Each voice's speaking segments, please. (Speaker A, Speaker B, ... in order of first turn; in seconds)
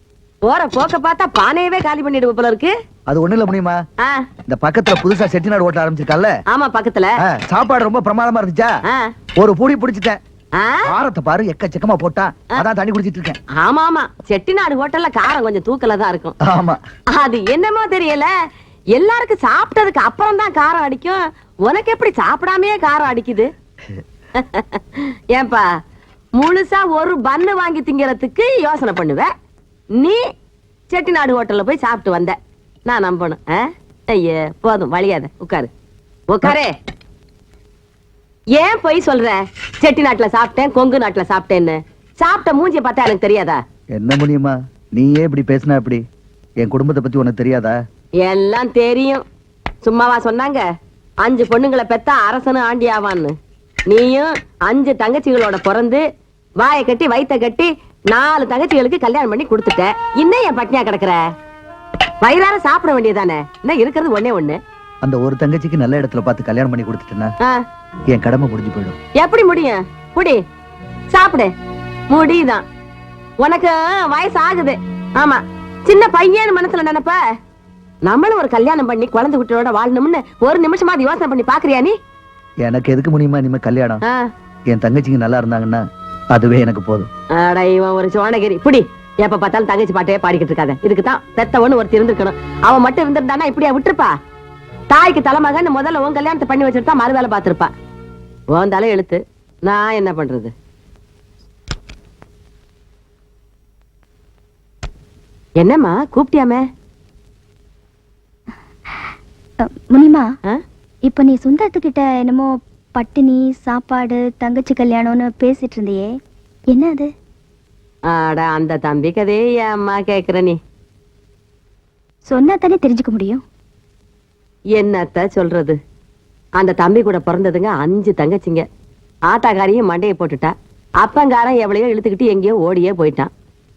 Speaker A: 0.4-2.7, 6.5-7.1, 10.6-10.9, 13.6-16.3, 17.1-18.3, 18.9-23.5, 24.4-25.6, 26.4-29.3, 30.9-32.4, 32.9-35.7, 36.3-36.7, 38.5-43.6, 48.2-49.2, 49.8-50.6, 51.2-53.3, 53.9-56.0, 56.6-61.2, 62.2-64.6, 69.2-70.4, 71.1-71.5, 72.1-72.6, 73.4-77.2, 78.0-81.9, 87.3-94.1, 94.9-97.7, 98.5-100.5, 105.6-106.6, 118.1-120.6, 124.7-125.8, 126.6-128.6, 129.3-133.3
Speaker B: 3.1-3.8, 4.5-6.3, 7.3-8.7, 9.4-10.2, 10.8-13.4, 16.4-16.8, 43.9-46.0, 46.6-47.7, 65.0-67.3, 68.1-69.0, 82.6-84.0, 84.7-85.8, 86.3-87.1
Speaker C: 109.9-110.2, 111.0-116.1, 116.7-117.1, 122.3-123.4